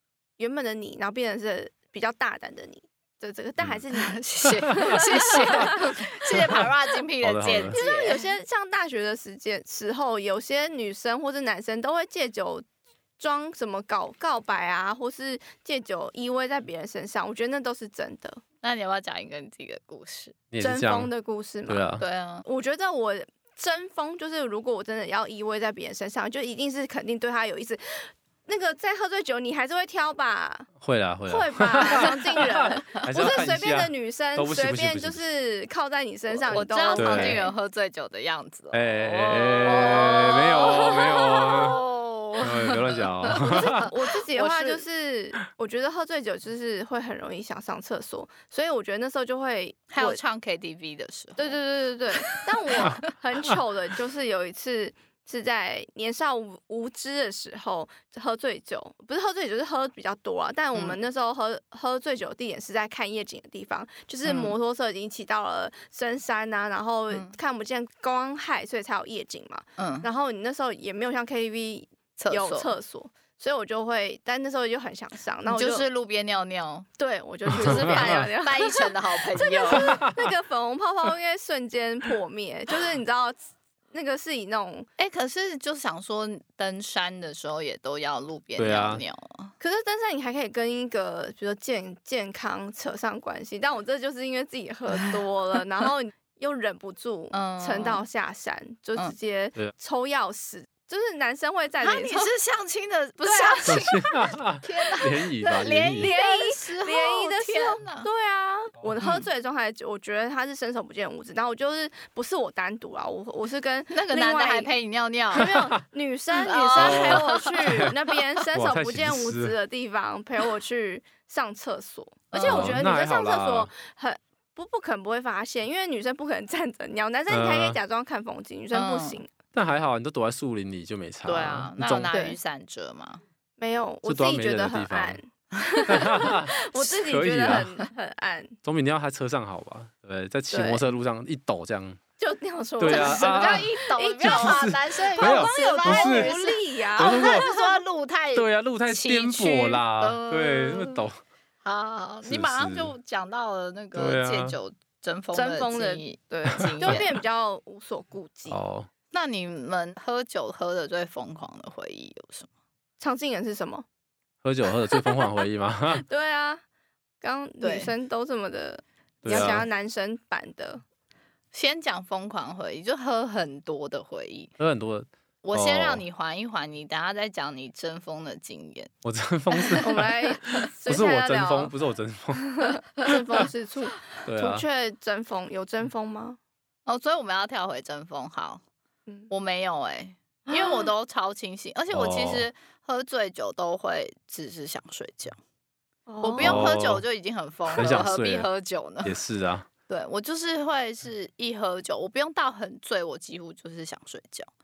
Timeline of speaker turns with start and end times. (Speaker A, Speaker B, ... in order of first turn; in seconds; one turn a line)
Speaker A: 0.4-6.0
Speaker B: 3.9-8.3
Speaker C: 4.6-5.8
Speaker C: 6.4-6.7
Speaker C: 7.2-7.8
Speaker A: 7.7-12.7
Speaker A: 13.2-18.4
Speaker B: 18.6-20.4
Speaker C: 20.5-21.1
Speaker A: 20.6-21.9
Speaker C: 21.7-22.0
Speaker B: 22.0-22.4
Speaker A: 22.4-30.7
Speaker C: 30.8-35.2
Speaker A: 31.3-37.5
Speaker B: 31.8-33.0
Speaker B: 36.5-44.8
Speaker C: 37.0-37.4
Speaker C: 38.7-41.8
Speaker A: 39.6-41.2
Speaker C: 42.4-43.9
Speaker A: 43.3-50.2
Speaker B: 49.9-51.5
Speaker A: 51.4-75.8
Speaker B: 52.3-53.0
Speaker B: 64.2-64.5
Speaker B: 67.1-67.3
Speaker B: 69.8-70.1
Speaker B: 72.2-72.7
Speaker B: 75.5-76.9
Speaker A: 77.0-83.4
Speaker B: 77.5-80.0
Speaker C: 77.6-78.0
Speaker C: 79.7-80.3
Speaker A: 83.9-84.9
Speaker B: 85.0-89.5
Speaker C: 88.6-89.0
Speaker A: 89.6-102.3
Speaker B: 94.9-95.2
Speaker B: 97.3-98.0
Speaker B: 101.8-108.1
Speaker A: 103.2-104.1
Speaker C: 103.7-106.1
Speaker A: 105.9-114.7
Speaker B: 109.0-109.2
Speaker B: 113.9-115.5
Speaker A: 115.3-129.3
Speaker C: 115.4-115.7
Speaker B: 116.3-118.2
Speaker C: 116.8-117.9
Speaker C: 118.5-119.5
Speaker B: 122.3-122.8
Speaker C: 122.4-123.7
Speaker C: 127.3-127.8
Speaker B: 128.7-129.2
Speaker C: 129.5-132.1
Speaker B: 131.2-133.2
Speaker A: 132.1-132.4
Speaker A: 133.6-138.6
Speaker C: 134.0-135.2
Speaker B: 135.7-136.1
Speaker C: 135.9-137.7
Speaker C: 138.6-142.0
Speaker A: 140.5-140.8
Speaker A: 142.2-147.8
Speaker C: 142.8-143.7
Speaker B: 142.8-151.0
Speaker C: 144.2-146.3
Speaker C: 146.9-147.5
Speaker C: 148.3-151.2
Speaker B: 151.6-157.1
Speaker C: 152.3-152.9
Speaker C: 153.9-154.6
Speaker A: 155.3-158.6
Speaker C: 158.5-158.9
Speaker B: 159.1-162.5
Speaker A: 163.0-163.8
Speaker C: 164.4-166.0
Speaker A: 165.0-165.2
Speaker A: 165.9-166.6
Speaker A: 167.2-170.8
Speaker B: 167.6-167.9
Speaker C: 169.2-169.7
Speaker B: 169.3-169.6
Speaker B: 171.5-174.5
Speaker C: 174.6-176.0
Speaker B: 175.4-178.9
Speaker C: 179.0-180.1
Speaker A: 179.8-181.7
Speaker C: 180.8-182.7
Speaker A: 182.4-186.4
Speaker C: 184.2-184.6
Speaker B: 186.8-188.6
Speaker B: 189.3-195.3
Speaker A: 190.5-190.9
Speaker C: 191.9-192.4
Speaker A: 196.1-196.8
Speaker B: 196.2-199.2
Speaker C: 196.4-197.0
Speaker C: 197.7-198.5
Speaker A: 197.8-198.0
Speaker C: 199.0-199.7
Speaker B: 199.9-204.5